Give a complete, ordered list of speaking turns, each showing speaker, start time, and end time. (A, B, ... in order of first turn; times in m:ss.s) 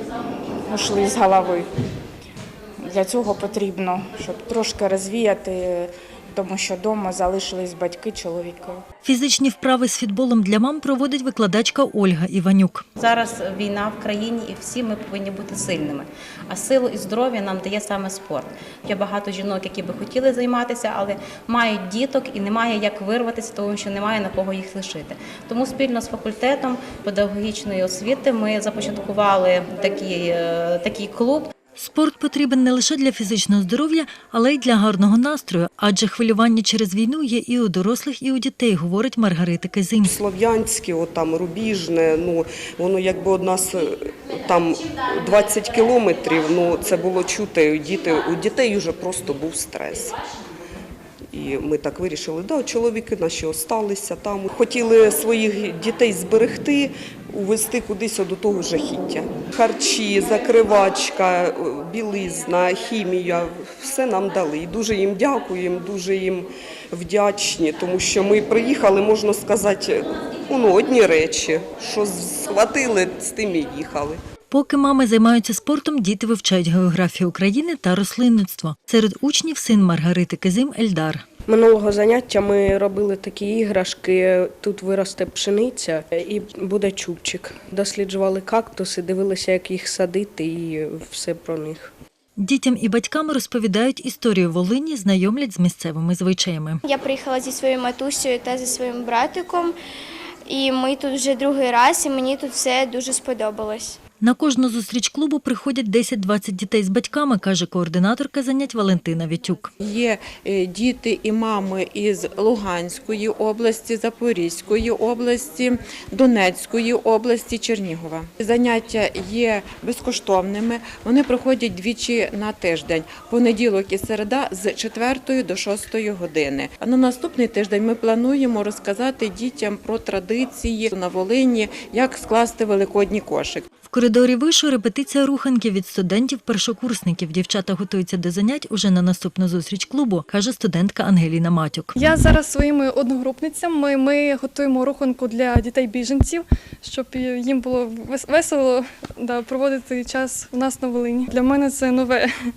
0:00.7-0:01.7 A
0:02.8-0:08.8 A
0:09.0-0:12.8 B
0:13.0-0:31.5 C
0:31.8-0:40.2 B
0:40.0-0:50.2 D
0:51.3-1:14.2 D
1:14.5-1:21.2 B
1:21.5-1:31.9 E
1:32.4-1:36.8 B
1:36.8-1:39.7 F
1:40.5-1:44.0 F
1:44.2-1:49.7 B
1:49.8-2:13.7 G
2:13.9-2:21.9 B
2:22.0-2:32.3 H